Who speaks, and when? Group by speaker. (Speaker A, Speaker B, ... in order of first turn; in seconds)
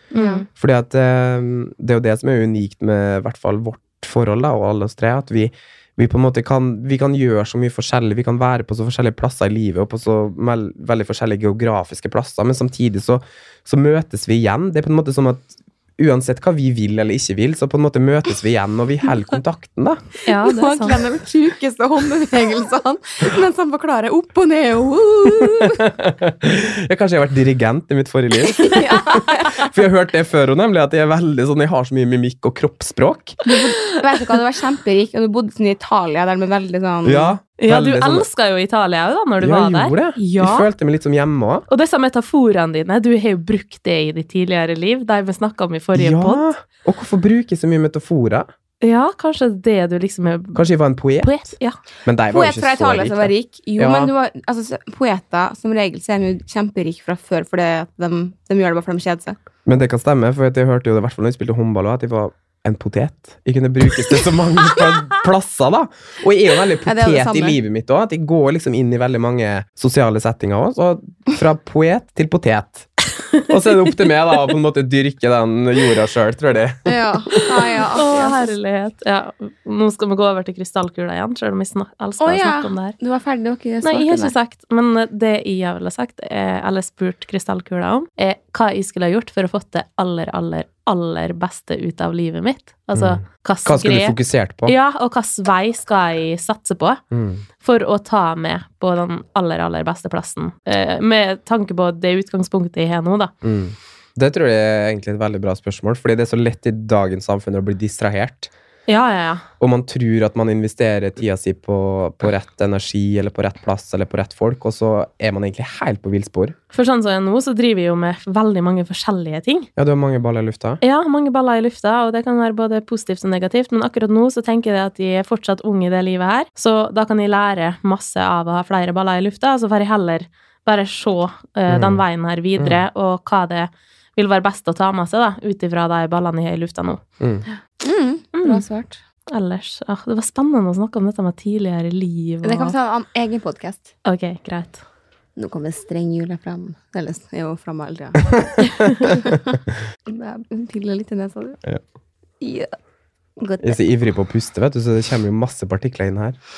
Speaker A: 0.1-0.5, 20.3-25.8, 28.6-29.7, 33.4-37.4, 52.3-59.4, 66.8-67.6, 76.8-78.5, 82.2-84.3, 137.8-139.0, 142.4-143.9, 145.4-149.5, 150.1-151.6, 152.4-152.8, 153.4-153.8
Speaker B: 0.1-0.5, 20.3-21.0, 37.6-40.7, 41.7-46.4, 48.8-50.6, 51.2-51.8, 77.3-83.0, 83.8-97.0, 97.6-103.3, 108.9-109.4, 116.7-119.7, 120.8-137.0, 138.4-138.6, 139.3-142.7, 144.1-144.8
Speaker C: 0.6-20.0, 25.6-33.4, 37.0-38.3, 39.4-41.6, 46.0-48.5, 50.5-51.5, 52.0-54.1, 59.7-72.9, 73.5-76.9, 93.0-94.8, 97.1-97.4, 103.4-108.5, 109.6-116.6, 119.8-120.8, 131.7-132.0, 132.6-132.8, 137.2-137.4, 148.3-149.4, 153.6-156.4